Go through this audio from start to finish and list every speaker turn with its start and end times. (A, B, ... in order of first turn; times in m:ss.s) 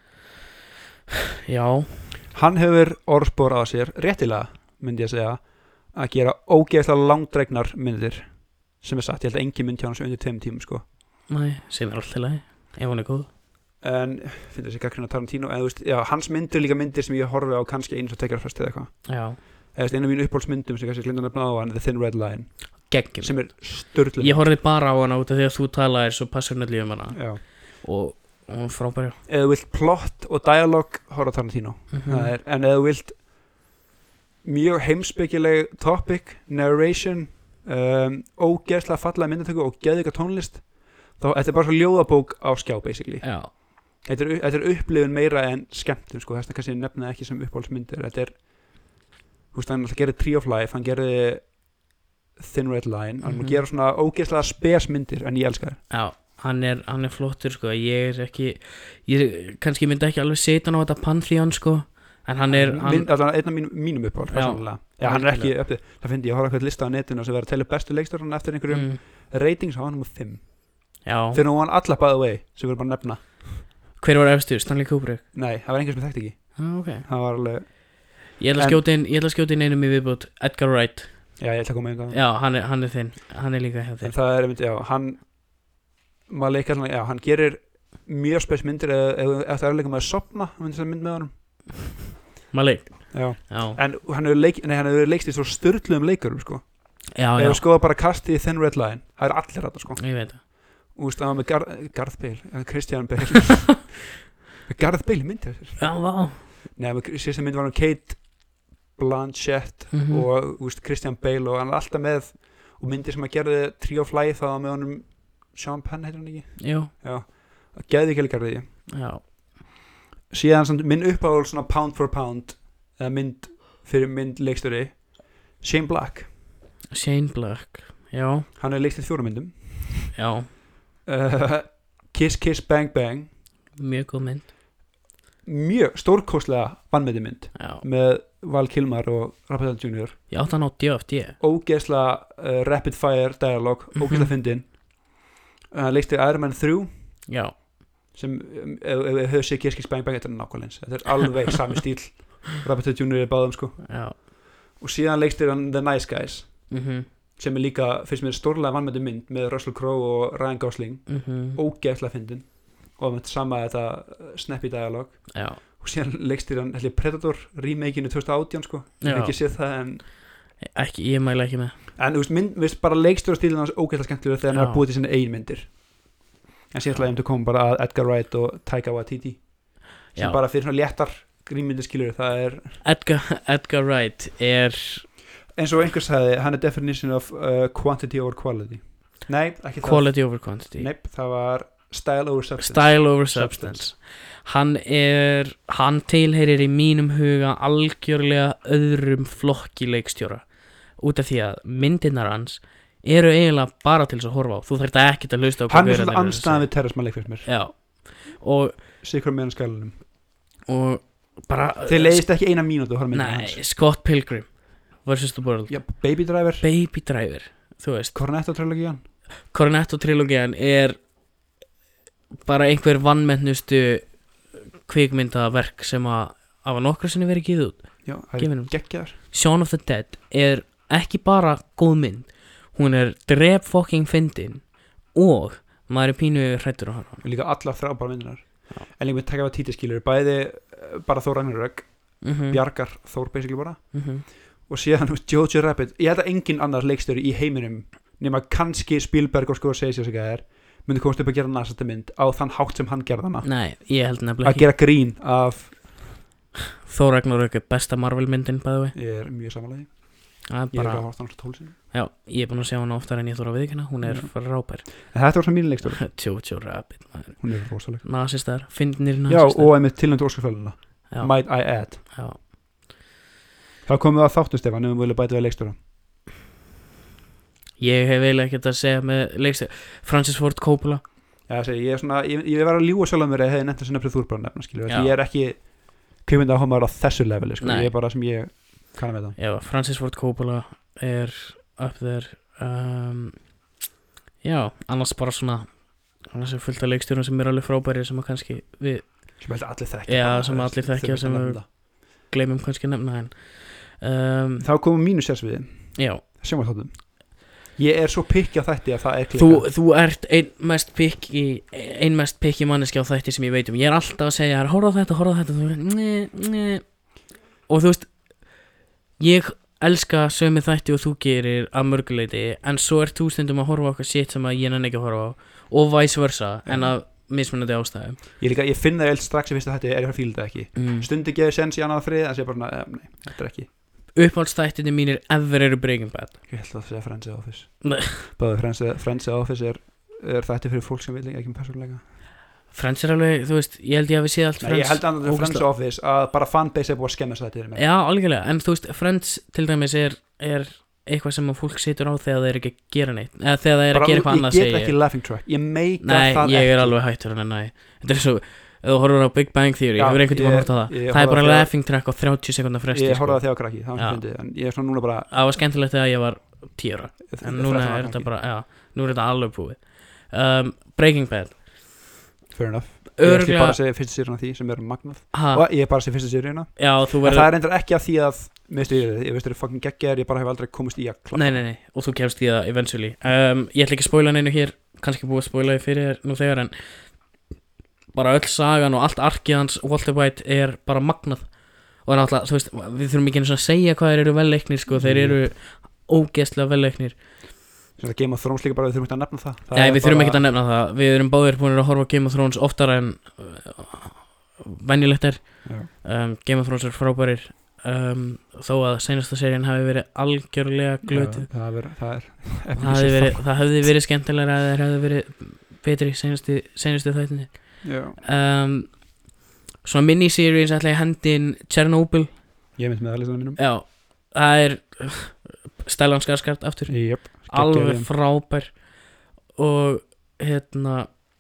0:01.5-0:02.1 A
0:02.3-0:10.8 B
0:11.3-0:13.3 A
0:13.8-0:19.1 B
0:19.0-0:19.4 A
0:19.7-0:24.4 B
0:22.9-0:29.2 A
0:27.1-0:27.4 B
0:29.3-0:33.2 B
0:31.9-0:32.3 A
0:34.4-0:48.4 B
0:43.2-0:43.5 A
0:49.5-0:51.5 B
0:52.4-0:55.8 B
0:53.2-0:53.6 A
0:55.9-1:03.1 A
1:02.5-1:10.4 B
1:04.3-1:05.5 A
1:08.7-1:09.0 A
1:11.0-1:11.4 A
1:11.3-1:13.6 B
1:14.0-1:15.2 A
1:15.3-1:18.8 B
1:16.6-1:17.1 A
1:18.4-1:21.3 A
1:21.4-1:22.2 B
1:22.1-1:24.1 A
1:24.0-1:25.3 B
1:26.3-1:31.3 B
1:32.5-1:33.8 A
1:33.1-1:44.0 B
1:37.1-1:37.6 A
1:40.0-1:40.4 A
1:44.6-1:45.9 B
1:45.8-1:46.4 A
1:46.7-1:48.2 B
1:49.0-1:58.7 B
1:49.9-1:50.2 A
1:56.6-1:56.9 A
1:58.9-1:59.2 A
2:00.3-2:05.0 B
2:05.6-2:06.3 B
2:06.9-2:08.5 A
2:08.6-2:10.1 B
2:10.1-2:10.5 A
2:11.0-2:13.3 B
2:13.8-2:14.5 A
2:15.4-2:20.2 B
2:17.6-2:17.8 A
2:20.3-2:21.4 A
2:21.4-2:24.7 B
2:24.0-2:24.3 A
2:25.7-2:26.9 B
2:27.3-2:27.5 A
2:28.1-2:34.2 B
2:33.8-2:34.2 A
2:34.8-2:36.8 B
2:36.7-2:37.1 A
2:37.4-2:50.1 B
2:41.1-2:41.6 A
2:45.3-2:45.6 A
2:49.0-2:49.3 A
2:50.6-2:51.7 A
2:52.0-2:55.8 B
2:54.5-2:54.8 A
2:56.7-2:59.4 B
3:00.1-3:02.8 B
3:00.1-3:00.4 A
3:02.8-3:05.1 A
3:05.5-3:13.9 B
3:09.8-3:10.9 A
3:12.6-3:20.4 A
3:21.0-3:26.8 A
3:25.7-3:27.5 B
3:27.4-3:28.8 A
3:29.0-3:30.0 B
3:30.6-3:32.4 A
3:31.8-3:33.6 B
3:33.1-3:35.9 A
3:35.7-3:36.6 B
3:36.6-3:38.1 A
3:38.1-3:39.0 B
3:39.5-3:41.0 A
3:42.4-3:44.2 A
3:44.8-3:57.2 A
3:48.0-3:49.1 B
3:57.2-4:13.5 B
4:02.2-4:02.6 A
4:03.9-4:04.2 A
4:13.4-4:14.7 A
4:14.4-4:16.1 B
4:16.8-4:18.9 A
4:18.9-4:20.0 B
4:20.5-4:25.1 A
4:20.7-4:21.8 B
4:24.0-4:26.1 B
4:26.0-4:29.7 A
4:27.4-4:28.0 B
4:29.3-4:32.0 B
4:31.1-4:32.4 A
4:33.8-4:35.8 B
4:37.8-4:41.0 A
4:41.5-4:49.4 B
4:44.9-4:45.1 A
4:47.6-4:47.9 A
4:49.4-4:53.5 A
4:54.4-4:59.4 A
4:59.4-5:01.7 B
5:00.1-5:04.6 A
5:04.6-5:09.7 B
5:06.0-5:06.2 A
5:09.3-5:17.1 A
5:17.6-5:18.6 A
5:19.2-5:28.2 A
5:26.6-5:27.0 B
5:28.4-5:33.7 B
5:30.8-5:31.1 A
5:34.1-5:36.3 A
5:36.5-5:42.0 B
5:37.8-5:38.3 A
5:42.7-5:45.7 A
5:44.6-5:47.8 B
5:47.7-5:55.0 A
5:53.9-5:57.0 B
5:56.0-6:04.2 A
6:00.0-6:01.7 B
6:02.9-6:05.3 B
6:05.3-6:11.6 A
6:07.3-6:08.3 B
6:12.5-6:21.6 B
6:13.2-6:13.8 A
6:15.3-6:15.6 A
6:16.8-6:17.5 A
6:21.3-6:27.2 A
6:28.1-6:37.2 A
6:34.9-6:35.4 B
6:38.0-6:40.4 B
6:39.7-6:51.5 A
6:51.0-6:53.9 B
6:52.8-6:59.1 A
6:57.8-6:58.2 B
6:59.8-7:02.4 A
7:02.8-7:03.6 B
7:03.6-7:08.8 A
7:06.9-7:08.1 B
7:09.6-7:11.2 A